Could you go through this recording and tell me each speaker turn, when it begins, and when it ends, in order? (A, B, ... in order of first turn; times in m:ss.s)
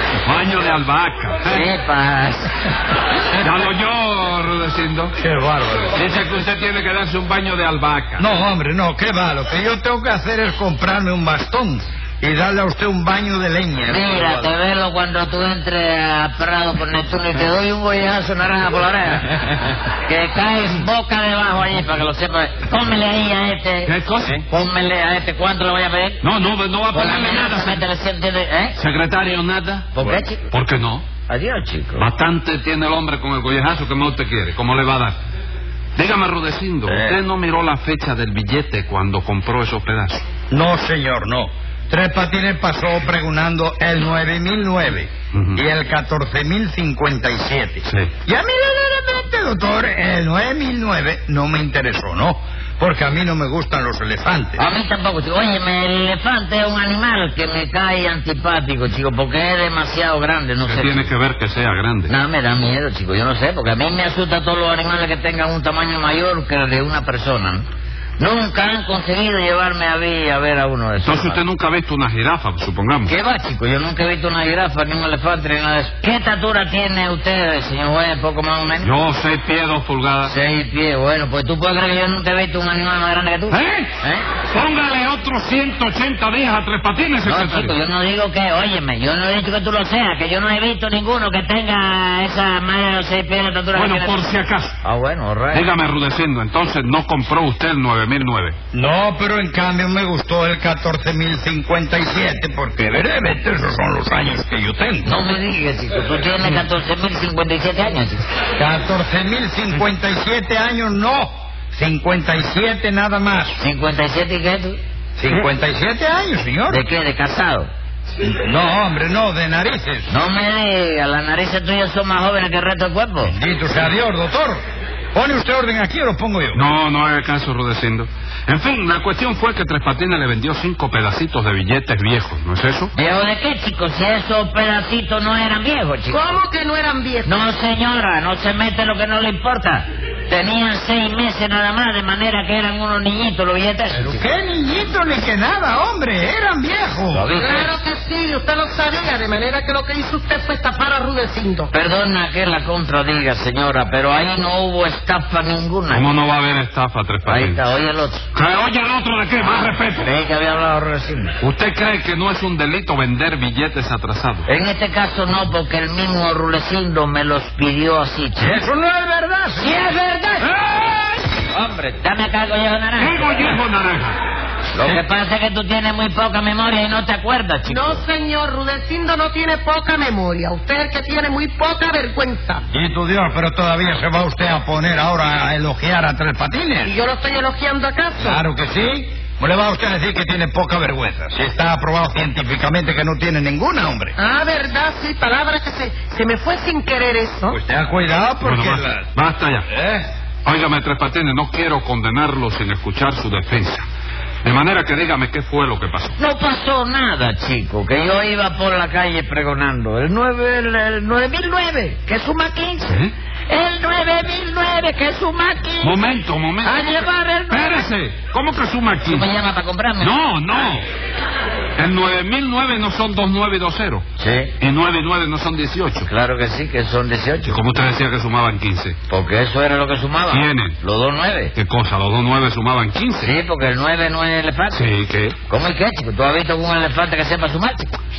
0:00.2-0:01.6 A
0:01.4-0:02.5 B
0:03.3-0:05.1 A
0:05.2-0:06.0 C
0:05.9-0:08.2 A
0:08.2-0:14.5 C
0:13.9-0:23.9 B
0:23.8-0:24.4 A
0:24.5-0:26.2 B
0:26.2-0:27.8 A
0:26.9-0:28.8 B
0:28.8-0:31.0 A
0:29.9-0:30.5 B
0:31.3-0:32.0 B
0:32.0-0:35.2 A
0:36.0-0:40.3 A
0:36.9-0:37.1 C
0:40.5-0:54.6 C
0:45.3-0:45.6 A
0:54.6-1:01.1 B
1:00.6-1:02.1 A
1:02.1-1:07.6 B
1:08.2-1:11.4 B
1:11.0-1:13.1 A
1:13.1-1:18.9 B
1:18.8-1:20.3 A
1:20.2-1:24.2 B
1:23.5-1:23.9 A
1:24.5-1:27.7 A
1:27.2-1:34.3 B
1:33.7-1:34.8 A
1:34.8-1:35.7 B
1:35.5-1:38.6 A
1:38.7-1:45.1 C
1:45.0-1:48.2 B
1:48.6-1:53.6 C
1:53.6-1:54.8 B
1:55.2-1:56.8 C
1:56.7-1:57.7 B
1:58.2-2:00.1 C
2:00.1-2:03.3 B
2:03.2-2:04.6 C
2:05.1-2:06.6 C
2:06.5-2:12.9 A
2:12.9-2:16.4 B
2:16.1-2:17.3 D
2:17.2-2:24.2 B
2:23.9-2:27.3 C
2:27.1-2:27.7 B
2:27.4-2:31.7 D
2:31.7-2:36.1 B
2:35.9-2:37.6 A
2:37.2-2:38.2 B
2:38.3-2:40.0 A
2:39.5-2:41.3 B
2:41.4-2:44.5 A
2:44.5-2:48.6 B
2:48.4-2:49.8 C
2:49.5-2:50.5 B
2:50.4-2:51.2 A
2:51.4-2:53.6 B
2:53.0-2:54.2 A
2:54.7-2:58.0 B
2:57.6-3:02.6 D
3:02.7-3:07.0 C
3:06.8-3:08.4 D
3:08.2-3:14.1 C
3:14.2-3:17.6 D
3:17.5-3:19.1 C
3:18.4-3:19.6 A
3:19.7-3:20.1 C
3:20.4-3:23.8 A
3:24.4-3:26.2 A
3:26.2-3:36.0 B
3:35.8-3:39.2 A
3:36.6-3:37.9 B
3:39.0-3:40.1 B
3:40.0-3:40.8 A
3:41.8-3:44.0 A
3:44.2-3:44.5 B
3:44.6-3:46.1 A
3:46.0-3:47.6 B
3:47.4-3:49.0 A
3:49.1-3:51.5 B
3:50.3-3:50.8 A
3:51.5-3:53.3 A
3:53.2-3:54.8 B
3:54.7-3:55.4 A
3:55.5-3:57.9 B